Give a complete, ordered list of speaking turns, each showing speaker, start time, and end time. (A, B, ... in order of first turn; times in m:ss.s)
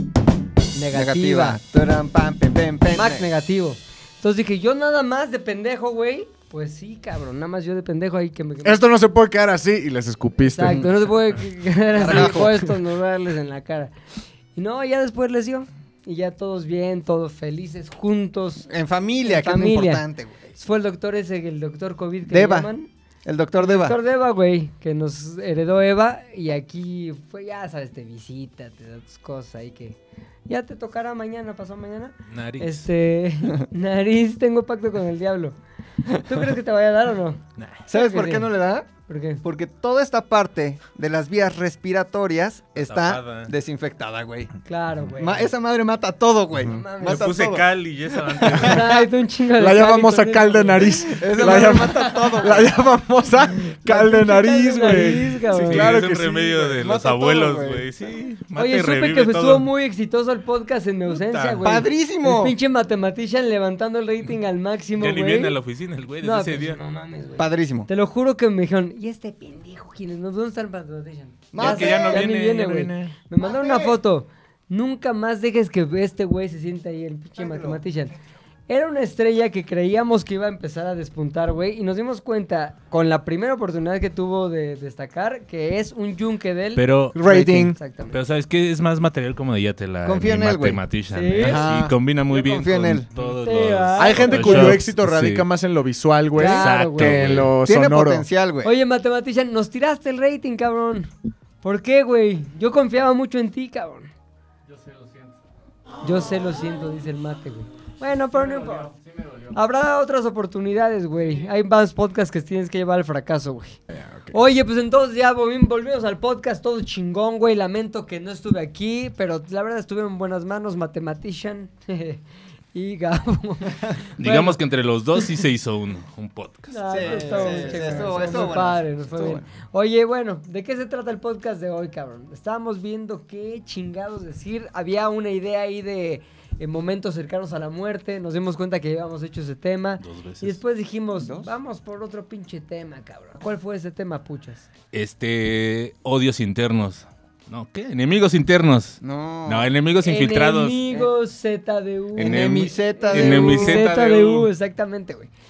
0:00.7-0:01.6 A
0:00.9-0:03.3 B
0:02.9-0:08.8 A
0:08.6-0:10.8 C
0:10.5-0:13.9 A
0:10.6-0:10.9 B
0:11.9-0:12.7 B
0:14.5-0:18.6 A
0:18.7-0:20.6 B
0:19.2-0:22.9 A
0:22.3-0:22.7 B
0:23.2-0:24.0 B
0:23.6-0:35.6 A
0:32.3-0:32.9 D
0:36.1-0:37.4 A
0:37.6-0:37.8 D
0:37.9-0:38.9 B
0:37.9-0:38.5 A
0:39.1-0:39.4 A
0:39.4-0:44.5 B
0:42.8-0:43.5 D
0:44.6-0:45.5 A
0:45.2-0:47.7 B
0:46.6-0:47.3 A
0:47.0-0:49.0 D
0:48.4-0:48.8 B
0:48.6-0:52.4 A
0:49.6-0:56.6 C
0:51.0-0:52.7 B
0:53.8-0:56.0 A
0:55.5-0:59.7 D
0:56.0-0:57.8 B
0:58.6-1:05.6 A
1:01.1-1:01.6 D
1:01.6-1:02.6 B
1:05.0-1:06.8 D
1:06.2-1:18.1 A
1:07.4-1:07.9 B
1:11.5-1:12.3 B
1:11.6-1:13.1 D
1:12.3-1:12.6 C
1:13.4-1:14.0 B
1:17.4-1:17.8 B
1:18.7-1:28.2 A
1:26.8-1:27.2 D
1:27.1-1:27.8 C
1:28.1-1:35.5 D
1:30.0-1:30.8 B
1:31.1-1:31.6 A
1:31.4-1:33.1 B
1:33.2-1:34.8 A
1:34.0-1:38.2 C
1:36.3-1:37.2 A
1:36.4-1:37.5 D
1:37.6-1:38.7 B
1:38.6-1:41.1 A
1:41.6-1:44.1 A
1:46.0-1:48.9 A
1:49.5-1:53.8 A
1:53.9-1:54.4 C
1:54.3-2:02.2 A
2:02.7-2:04.6 A
2:04.2-2:07.9 D
2:06.7-2:24.7 A
2:06.9-2:09.5 B
2:20.0-2:20.6 D
2:21.2-2:21.5 B
2:24.9-2:30.8 D
2:29.0-2:29.7 B
2:30.0-2:35.3 A
2:32.1-2:33.9 B
2:32.2-2:34.5 D